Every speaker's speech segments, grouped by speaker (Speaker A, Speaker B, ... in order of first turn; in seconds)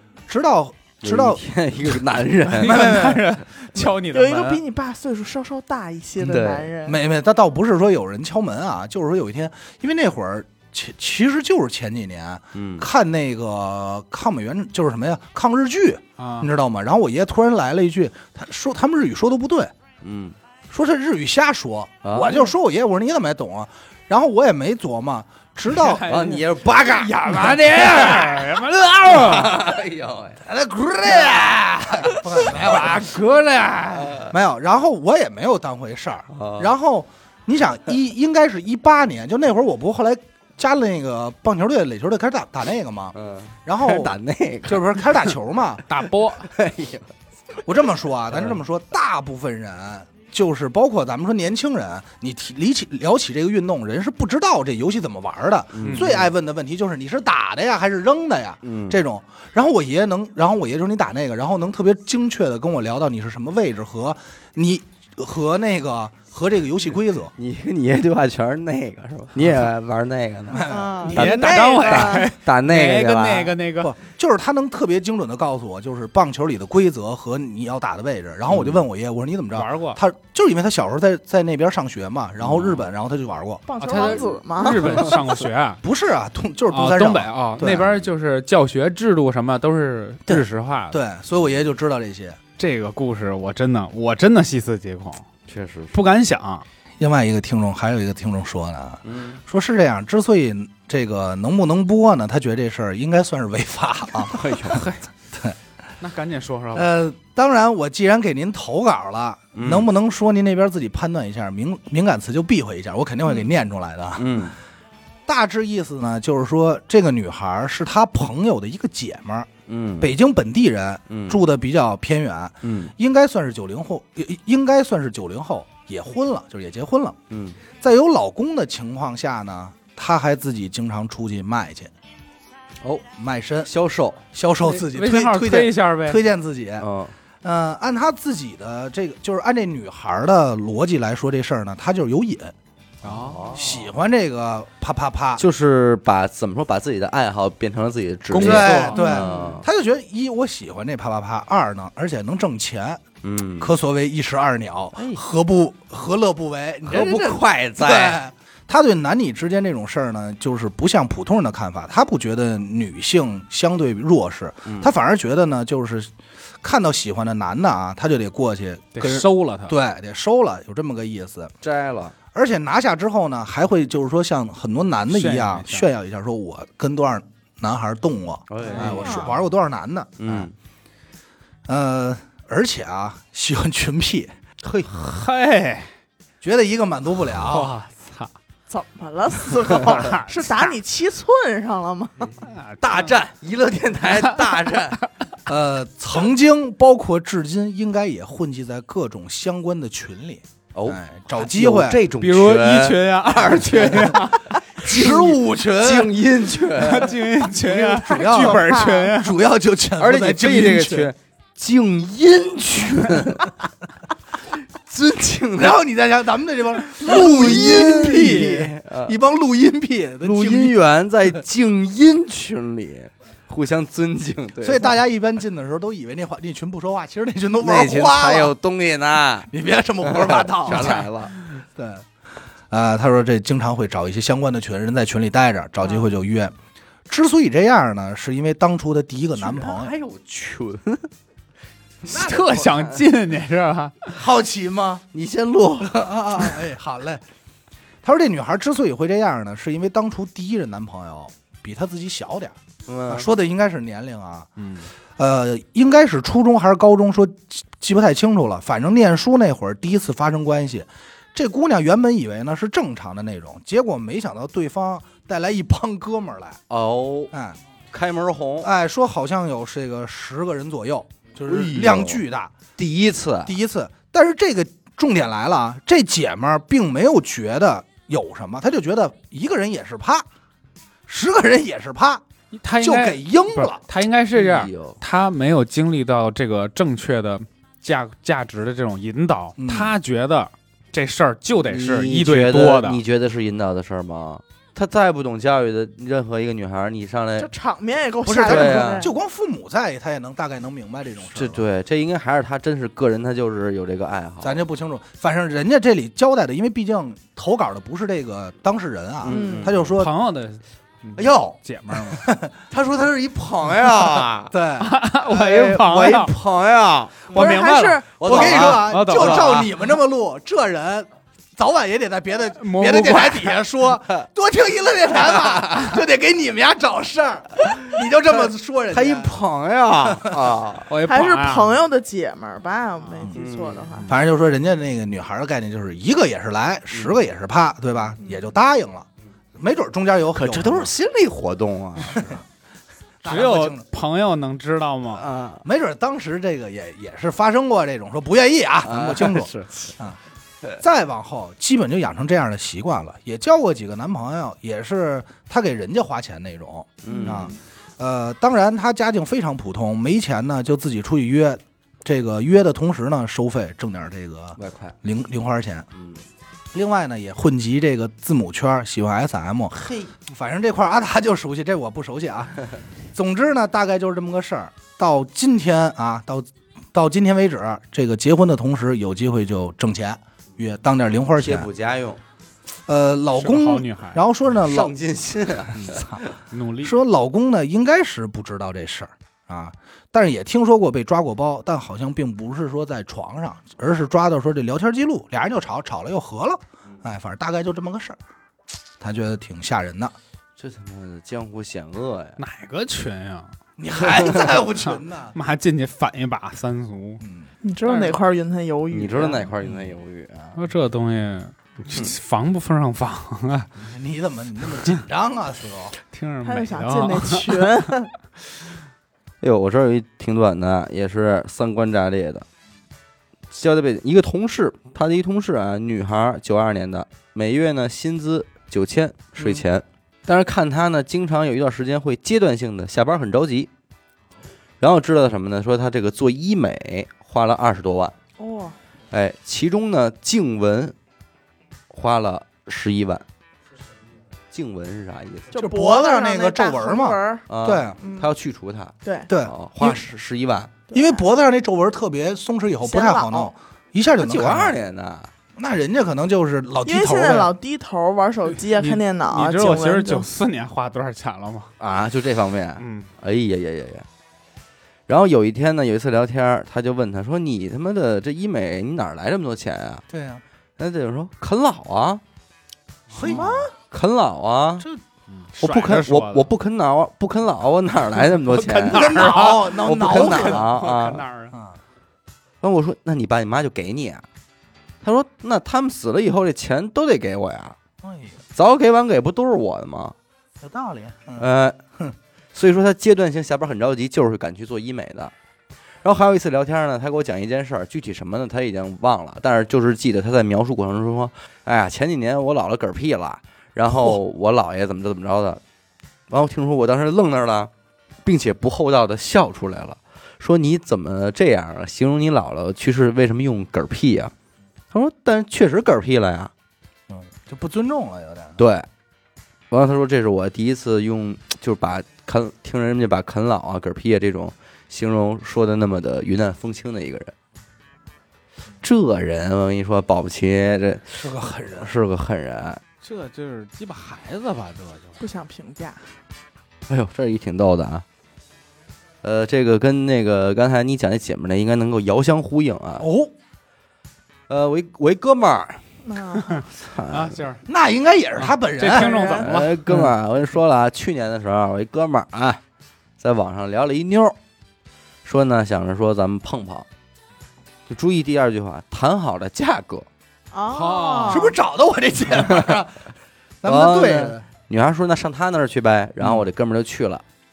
Speaker A: 0.3-1.4, 2.7-3.1, 6.8-19.7, 20.7-26.1, 30.4-33.1, 34.3-43.1, 43.6-44.1, 44.6-45.9, 47.6-67.3, 70.5-71.3, 73.8-83.7, 85.8-87.9, 90.3-92.4, 97.0-104.8, 106.7-114.5, 115.2-127.2, 127.8-131.9, 133.2-133.7, 134.3-136.9, 137.4-142.5, 143.5-145.4, 148.4-153.0, 153.6-171.5, 172.3-180.5, 181.7-184.3, 186.4-187.7, 195.5-202.0, 204.8-206.1, 207.5-211.1, 215.6-220.8, 224.6-228.5, 229.5-232.1, 232.7-236.5, 237.1-239.9, 244.1-245.0, 245.8-247.2, 248.0-252.6, 253.1-254.5, 255.2-266.6, 267.3-267.6, 268.6-272.5, 273.4-280.2, 281.1-282.2, 282.8-283.8, 289.6-289.9, 298.2-301.6, 304.4-310.1, 312.1-312.5, 314.5-314.9, 318.2-329.4, 330.0-330.5, 334.0-340.9, 342.0-342.4, 343.2-343.8, 345.6-350.2, 350.8-365.9, 366.7-369.7, 370.3-381.7, 382.9-384.9, 385.7-386.2, 386.8-398.2, 399.0-400.1, 403.8-405.4, 407.2-407.5, 413.8-415.9, 445.6-448.0, 449.3-450.0, 450.9-454.8, 455.6-457.5, 470.1-470.4, 473.1-473.6, 478.8-480.7, 481.5-481.8, 488.0-488.4, 490.6-491.5, 517.1-518.6, 531.2-531.9, 543.0-543.3, 547.7-549.1, 561.2-564.4
Speaker B: 1.0-3.2, 6.2-6.7, 12.5-12.9, 20.0-20.4, 22.0-22.4, 26.1-30.4, 31.1-31.5, 32.3-32.9, 33.9-34.3, 36.3-36.7, 43.1-45.0, 46.4-47.1, 48.3-48.6, 55.7-56.3, 58.6-59.0, 67.3-73.6, 78.5-78.9, 82.4-82.8, 87.6-87.9, 95.5-96.0, 99.0-99.4, 104.2-104.8, 109.5-109.9, 114.2-114.5, 119.7-120.1, 121.1-121.4, 122.6-122.9, 127.3-127.6, 132.8-133.1, 133.6-134.2, 136.8-137.1, 143.0-143.8, 145.4-149.7, 153.2-153.8, 154.9-155.2, 156.8-158.2, 164.6-164.9, 171.6-172.2, 178.5-179.4, 180.2-180.5, 184.6-184.9, 192.8-195.0, 200.7-207.2, 210.0-213.5, 214.5-215.8, 216.9-219.2, 220.2-225.0, 227.6-229.5, 230.0-231.3, 239.3-241.1, 242.1-243.0, 245.1-246.6, 252.9-253.3, 266.7-267.3, 267.9-268.7, 271.4-272.2, 272.8-273.6, 284.3-285.0, 291.6-297.5, 298.4-299.1, 301.3-304.6, 309.2-310.0, 311.1-311.6, 312.7-314.5, 315.3-317.3, 318.2-319.6, 325.1-325.8, 328.4-330.9, 333.3-334.0, 340.3-342.3, 345.1-345.6, 348.8-349.9, 357.0-357.5, 364.6-364.9, 365.9-366.2, 369.7-370.1, 381.4-382.2, 384.6-386.3, 400.6-402.4, 404.0-404.6, 408.9-410.6, 419.4-422.4, 423.5-433.7, 434.8-438.1, 439.1-440.9, 441.9-443.2, 444.5-445.5, 447.5-450.7, 454.1-455.3, 461.8-464.1, 465.1-470.0, 470.8-472.2, 473.2-474.9, 475.6-481.2, 482.6-484.2, 485.0-487.8, 488.5-490.1, 491.4-491.8, 492.5-495.3, 496.0-505.6, 506.3-507.7, 508.2-514.3, 514.9-516.5, 518.6-518.9, 519.7-527.3, 528.8-532.8, 536.9-538.0, 539.2-543.1, 544.5-545.8, 546.7-547.4, 549.3-552.6, 553.2-554.4, 555.2-556.9, 557.9-560.1, 563.6-567.2
Speaker C: 2.5-4.6, 16.2-16.5, 25.7-29.6, 32.4-34.2, 45.9-46.5, 55.8-56.1, 71.1-73.9, 79.5-80.0, 83.8-85.8, 86.7-91.0, 92.6-95.3, 95.9-96.6, 104.7-105.0, 106.0-106.9, 134.6-136.2, 143.0-143.6, 148.3-149.2, 168.9-169.7, 175.1-175.9, 178.6-179.2, 184.9-185.9, 187.4-188.3, 189.6-190.8, 192.4-193.2, 194.2-194.5, 202.2-204.6, 206.8-209.4, 230.7-231.0, 242.0-244.1, 254.6-254.9, 282.5-293.0, 309.9-312.2, 314.8-316.3, 317.3-319.7, 322.5-323.6, 330.9-331.7, 343.2-345.3, 383.3-384.2, 386.5-386.9, 402.4-403.5, 404.9-407.2, 407.8-408.2, 410.6-413.7, 416.1-417.9, 458.5-461.7, 462.8-463.1, 475.3-476.5, 478.4-481.5, 533.0-535.2, 546.3-547.6, 548.4-550.1, 560.7-561.4
Speaker D: 4.1-7.0, 70.7-72.3, 83.7-85.1, 148.9-149.4, 178.8-179.3, 188.7-192.4, 208.2-209.1, 297.4-299.1, 309.3-309.7, 317.3-318.2, 331.1-334.1, 357.1-357.4, 407.6-409.5, 416.4-418.1, 438.4-438.8, 445.5-447.4, 448.0-448.3, 449.0-449.3, 450.9-451.2, 452.8-453.5, 456.8-460.2, 473.2-473.7, 535.2-536.0, 546.0-546.6, 548.9-549.5, 560.5-561.6